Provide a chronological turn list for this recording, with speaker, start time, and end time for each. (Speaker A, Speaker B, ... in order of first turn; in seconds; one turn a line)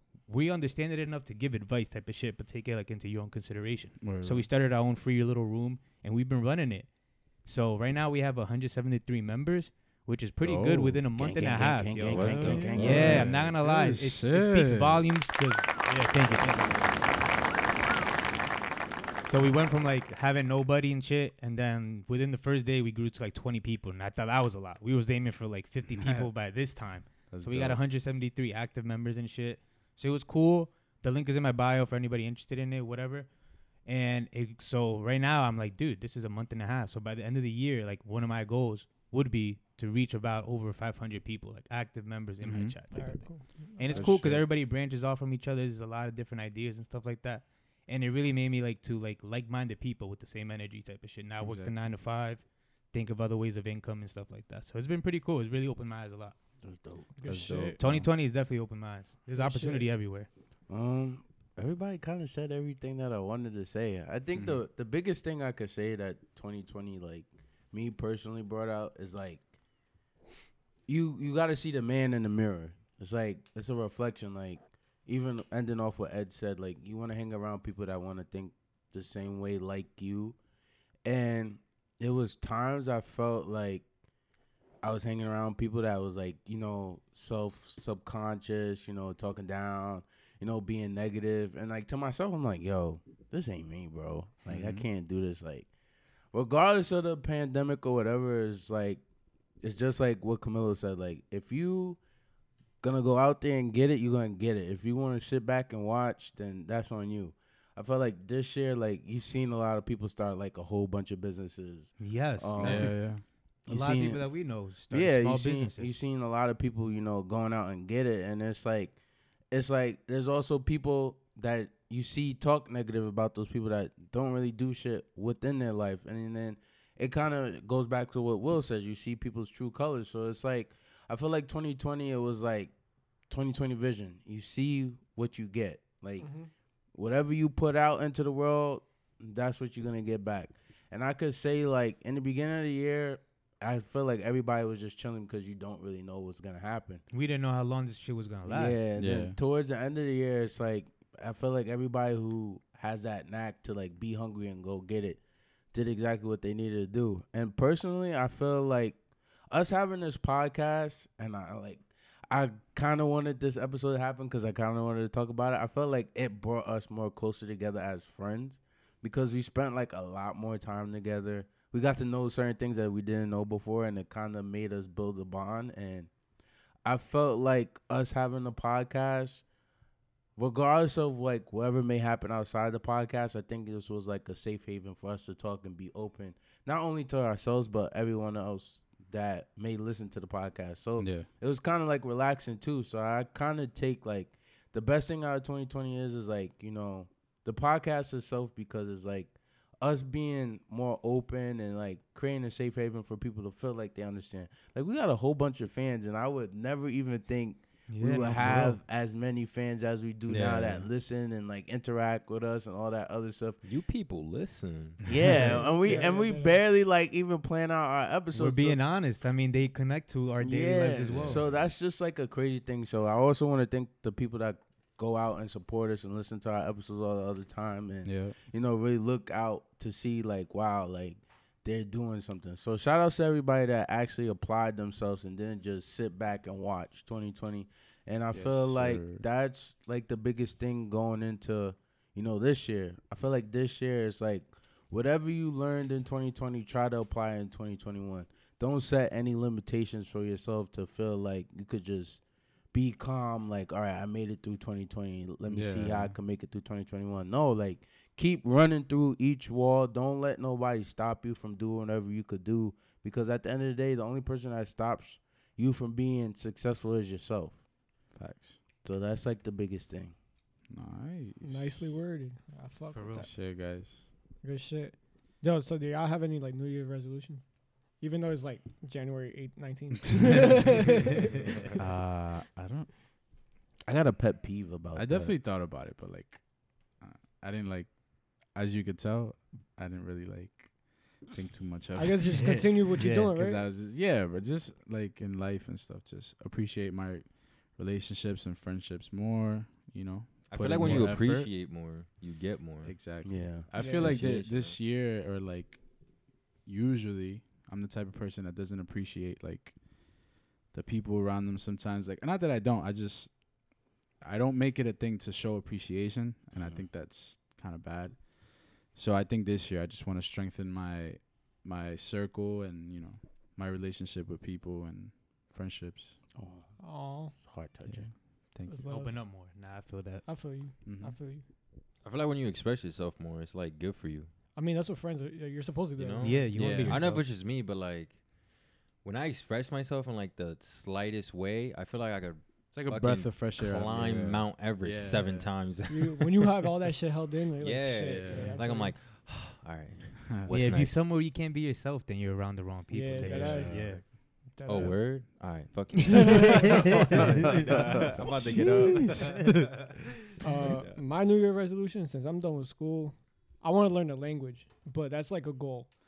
Speaker A: 0.3-6.9
Speaker B: 4.0-4.5
Speaker A: 7.4-17.0
Speaker B: 10.4-11.0
Speaker C: 11.1-13.3
Speaker B: 12.1-15.1
Speaker D: 12.1-13.3
Speaker A: 19.2-33.3
Speaker B: 26.0-26.3
Speaker B: 27.3-27.8
Speaker A: 33.8-56.3
Speaker B: 42.4-42.8
Speaker E: 42.9-44.1
Speaker B: 43.9-44.5
Speaker B: 51.4-51.7
Speaker C: 56.6-57.1
Speaker E: 57.2-57.8
Speaker B: 57.2-58.1
Speaker A: 57.8-60.3
Speaker E: 59.3-59.9
Speaker C: 60.7-69.4
Speaker B: 64.3-64.6
Speaker C: 70.9-80.4
Speaker C: 81.0-83.8
Speaker C: 84.8-95.7
Speaker B: 94.5-94.8
Speaker C: 96.3-99.0
Speaker C: 99.6-102.0
Speaker C: 102.8-118.9
Speaker A: 112.0-113.1
Speaker B: 112.6-113.2
Speaker A: 113.7-115.9
Speaker C: 119.5-132.7
Speaker C: 133.3-136.3
Speaker E: 136.2-136.5
Speaker C: 136.9-147.0
Speaker A: 147.1-148.8
Speaker C: 148.4-155.2
Speaker B: 149.0-149.3
Speaker C: 155.7-159.0
Speaker C: 159.5-176.1
Speaker C: 176.8-179.4
Speaker C: 180.3-213.6
Speaker B: 191.0-191.3
Speaker A: 207.9-208.8
Speaker D: 210.3-210.8
Speaker D: 213.6-215.7
Speaker C: 215.1-218.8
Speaker E: 215.5-216.6
Speaker A: 218.3-221.4
Speaker C: 220.4-252.2
Speaker D: 221.1-221.4
Speaker B: 228.0-228.3
Speaker B: 238.3-239.2
Speaker C: 252.7-267.6
Speaker B: 255.4-256.1
Speaker B: 268.1-268.6
Speaker C: 268.8-270.1
Speaker B: 270.7-271.8
Speaker E: 271.4-273.3
Speaker A: 272.9-273.3
Speaker B: 273.1-274.0
Speaker E: 274.4-277.4
Speaker E: 278.0-281.3
Speaker B: 280.1-280.9
Speaker B: 281.8-282.9
Speaker C: 283.9-285.3
Speaker B: 284.9-286.4
Speaker B: 287.0-301.5
Speaker E: 291.9-293.6
Speaker A: 292.4-293.3
Speaker D: 300.5-303.0
Speaker B: 302.8-305.8
Speaker C: 303.2-303.7
Speaker E: 303.8-304.2
Speaker D: 303.9-304.8
Speaker B: 306.6-309.8
Speaker B: 310.7-313.4
Speaker B: 314.2-318.3
Speaker C: 316.5-316.8
Speaker B: 318.9-326.1
Speaker C: 326.4-326.7
Speaker E: 326.8-327.3
Speaker C: 327.2-328.1
Speaker B: 327.9-328.8
Speaker E: 328.7-329.4
Speaker A: 328.8-330.4
Speaker E: 330.2-331.4
Speaker B: 330.8-331.1
Speaker D: 332.0-334.3
Speaker E: 334.6-336.5
Speaker D: 336.0-338.2
Speaker A: 336.2-337.2
Speaker B: 336.5-337.0
Speaker D: 339.0-346.3
Speaker B: 342.7-345.5
Speaker E: 345.9-348.9
Speaker D: 347.6-351.1
Speaker B: 348.1-348.6
Speaker A: 350.5-354.0
Speaker E: 352.9-355.2
Speaker B: 353.2-354.0
Speaker D: 353.2-353.9
Speaker D: 354.6-359.6
Speaker E: 356.1-356.7
Speaker A: 356.2-357.5
Speaker C: 357.1-358.8
Speaker A: 358.9-359.7
Speaker E: 360.4-365.9